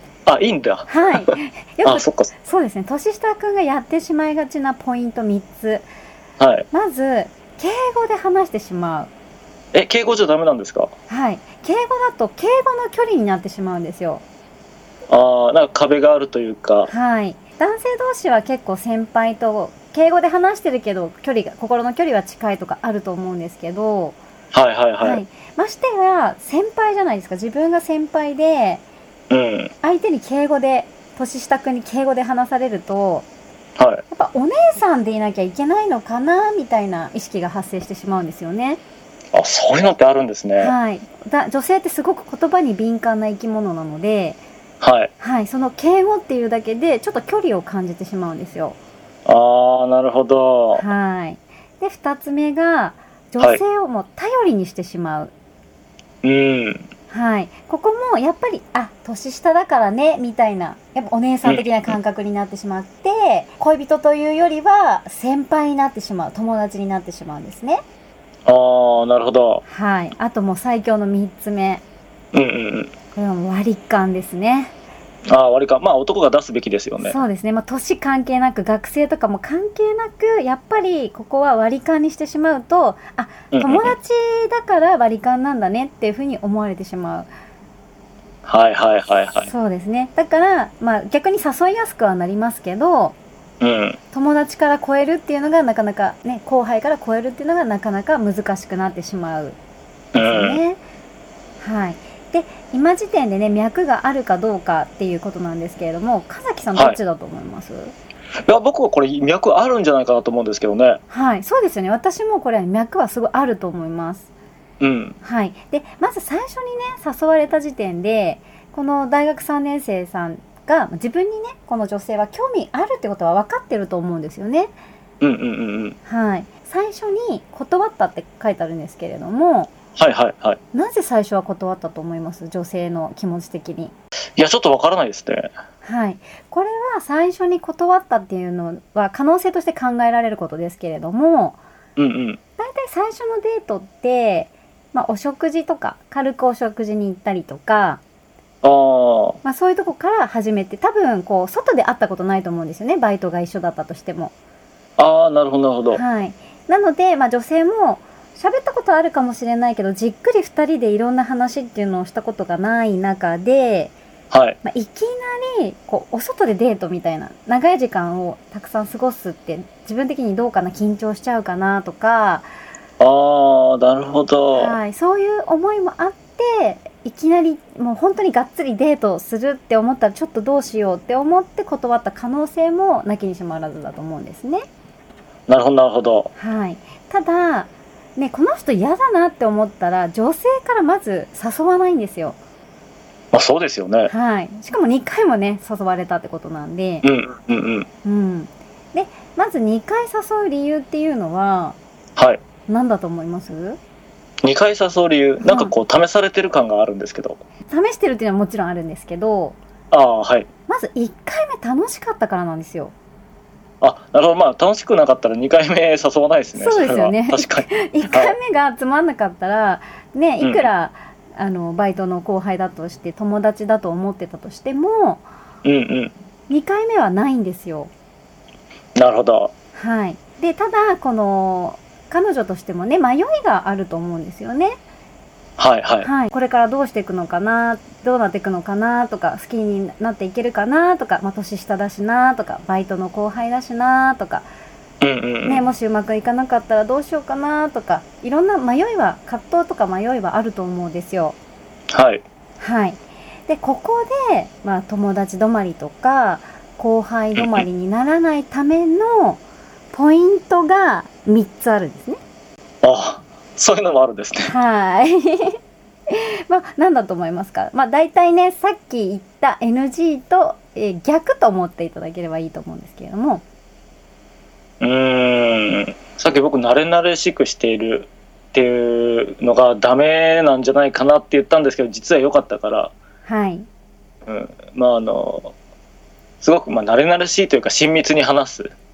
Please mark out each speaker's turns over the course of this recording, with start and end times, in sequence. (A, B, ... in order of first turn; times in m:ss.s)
0:00.2-0:02.3 A
0:00.9-0:05.9 B
0:06.4-0:06.7 A
0:06.7-0:09.1 B
0:09.7-0:10.9 A
0:11.1-0:14.2 B
0:15.1-0:16.9 A
0:16.8-0:24.2 B
0:24.5-0:25.2 A
0:25.0-0:28.8 B
0:29.3-0:29.7 A
0:29.8-0:33.3 B
0:33.8-0:34.0 A
0:34.1-0:38.8 B
0:39.3-0:40.7 A
0:40.6-0:44.4 B
0:44.8-0:45.1 A
0:45.2-0:48.8 B
0:49.2-0:50.8 A
0:50.7-0:55.3 B
0:56.2-0:56.9 A
0:57.1-1:07.8 B
1:01.4-1:01.9 A
1:08.4-1:09.6 A
1:09.7-1:11.8 B
1:12.3-1:12.9 A
1:13.1-1:14.7 B
1:15.3-1:17.2 A
1:17.0-1:27.3 B
1:23.5-1:24.0 A
1:28.4-1:29.5 A
1:29.4-1:33.2 B
1:33.6-1:34.0 A
1:34.1-1:39.6 B
1:40.1-1:40.6 A
1:40.2-1:40.8 B
1:41.6-1:47.9 B
1:48.5-1:51.0 A
1:51.1-1:54.3 B
1:54.8-1:55.2 A
1:55.2-2:04.7 B
2:05.2-2:06.0 A
2:06.0-2:09.7 B
2:10.0-2:10.6 A
2:10.7-2:13.9 B
2:14.4-2:15.5 A
2:15.8-2:21.6 B
2:22.0-2:22.4 A
2:22.6-2:28.0 B
2:28.6-2:29.4 A
2:29.4-2:34.3 B
2:35.0-2:36.0 A
2:35.9-2:43.9 B
2:44.3-2:44.6 A
2:44.6-2:52.5 B
2:53.0-2:54.8 A
2:54.5-3:04.6 B
3:05.5-3:06.3 A
3:06.4-3:12.4 B
3:13.3-3:14.1 A
3:14.1-3:17.0 B
3:17.0-3:17.9 A
3:18.0-3:21.8 B
3:22.7-3:23.8 B
3:24.4-3:27.4 A
3:25.4-3:25.7 B
3:27.7-3:29.6 B
3:29.9-3:30.5 A
3:30.7-3:32.9 B
3:33.8-3:38.4 A
3:36.5-3:45.2 B
3:40.4-3:40.7 A
3:45.6-3:46.1 A
3:46.5-3:47.9 B
3:49.0-3:49.5 A
3:49.8-3:54.8 B
3:55.6-3:56.1 A
3:56.0-4:04.5 B
4:05.0-4:05.7 A
4:05.4-4:11.4 B
4:11.9-4:12.2 A
4:12.6-4:19.4 B
4:17.4-4:17.6 A
4:19.9-4:22.2 B
4:22.8-4:24.6 A
4:24.4-4:33.4 B
4:34.8-4:42.9 A
4:43.2-4:43.7 B
4:44.2-4:45.5 A
4:46.4-4:48.7 A